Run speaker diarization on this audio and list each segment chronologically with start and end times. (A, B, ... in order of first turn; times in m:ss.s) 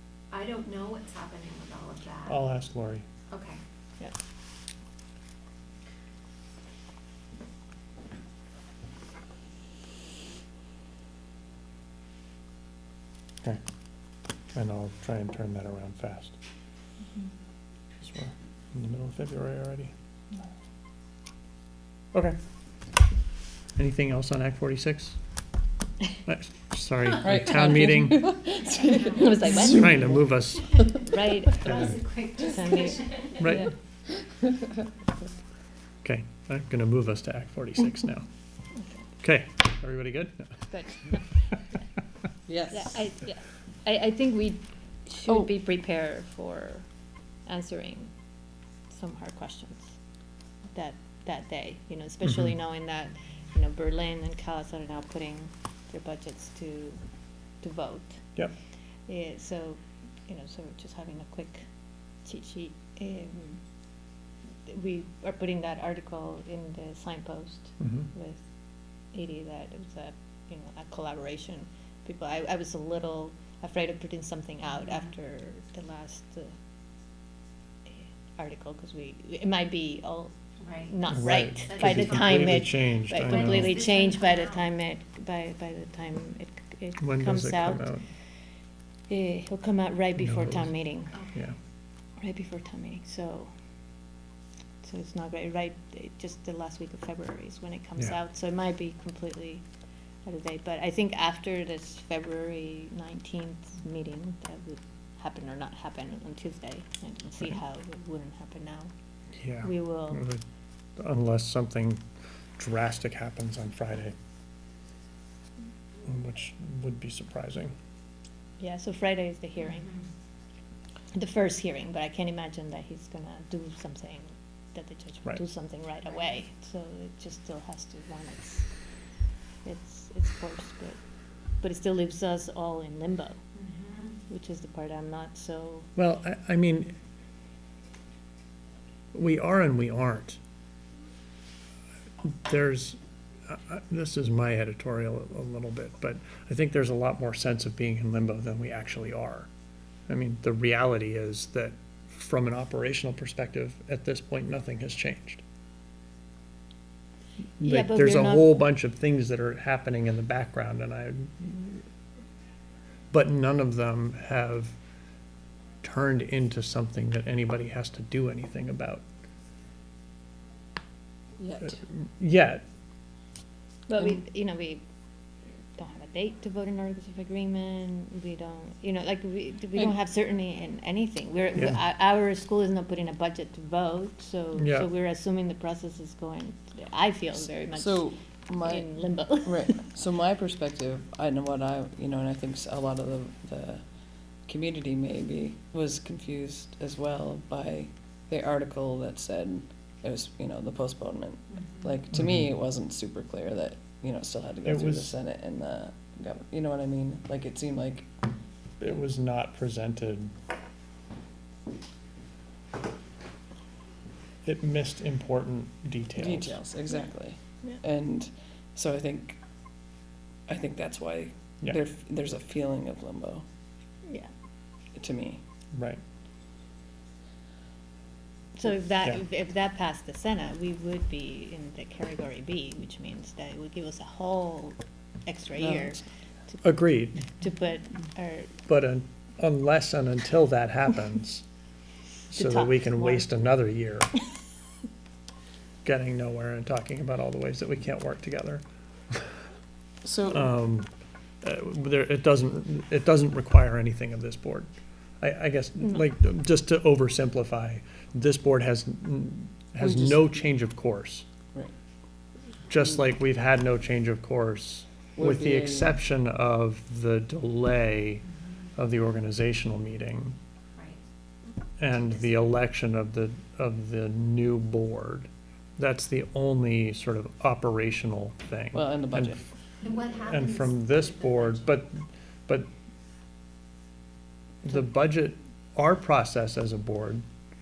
0:00.3-0:02.4 A
0:02.3-0:03.0 B
0:03.3-0:03.6 A
0:14.5-0:16.4 B
0:18.0-0:19.9 B
0:23.8-0:25.2 B
0:26.3-0:28.3 B
0:27.2-0:30.0 C
0:28.5-0:29.4 A
0:29.1-0:33.7 D
0:29.5-0:30.9 B
0:31.6-0:33.5 A
0:31.7-0:32.0 B
0:33.4-0:33.7 B
0:36.0-0:38.3 B
0:39.2-0:40.5 B
0:40.7-0:41.3 D
0:42.5-0:43.0 C
0:42.7-0:46.9 D
0:47.5-0:48.1 D
0:48.9-0:50.0 D
0:50.7-0:57.0 D
0:52.2-0:52.5 B
0:57.6-0:58.3 D
0:59.1-1:01.6 D
1:02.2-1:03.6 D
1:04.7-1:08.4 D
1:07.8-1:08.1 B
1:09.1-1:16.5 D
1:18.4-1:20.3 D
1:20.6-1:21.0 A
1:20.9-1:27.9 D
1:21.1-1:23.8 B
1:21.6-1:22.5 A
1:23.3-1:24.7 A
1:27.0-1:28.1 B
1:29.1-1:31.2 D
1:30.2-1:30.7 B
1:32.2-1:33.5 D
1:34.8-1:39.6 D
1:40.2-1:48.9 D
1:49.4-1:50.4 B
1:49.6-1:50.2 D
1:51.0-1:52.0 B
1:52.6-1:54.2 B
1:56.0-1:57.7 B
1:58.6-1:59.9 D
2:01.1-2:08.7 D
2:09.6-2:11.0 D
2:11.6-2:13.4 D
2:13.6-2:14.2 A
2:14.3-2:15.9 D
2:16.0-2:17.0 B
2:19.1-2:20.4 B
2:22.3-2:29.5 B
2:30.1-2:35.4 B
2:37.6-2:38.5 D
2:37.6-2:41.9 B
2:43.1-2:44.8 B
2:45.8-2:49.0 B
2:51.4-2:51.8 C
2:51.8-2:52.6 B
2:53.9-2:54.8 D
2:55.8-3:09.8 D
3:04.6-3:04.9 B
3:07.7-3:13.8 C
3:14.5-3:28.1 C
3:21.6-3:21.9 A
3:22.1-3:22.5 B
3:24.6-3:25.2 B
3:28.8-3:30.3 B
3:34.4-3:36.6 B
3:36.2-3:39.4 C
3:40.5-3:43.4 C
3:45.0-3:45.4 C
3:45.7-3:46.0 B
3:48.6-3:56.6 D
3:56.6-3:57.3 B
3:57.3-3:58.6 D
3:58.7-4:01.4 B
4:02.3-4:04.2 B
4:02.3-4:03.3 D
4:05.8-4:09.3 B
4:10.0-4:10.5 C
4:10.3-4:10.9 B
4:11.4-4:14.7 B
4:15.2-4:21.3 B
4:19.8-4:20.4 C
4:22.7-4:28.2 B
4:25.2-4:26.0 C
4:28.8-4:30.4 B
4:31.8-4:39.4 B
4:38.7-4:39.4 C
4:39.8-4:41.7 A
4:40.3-4:42.7 B
4:44.6-4:47.2 B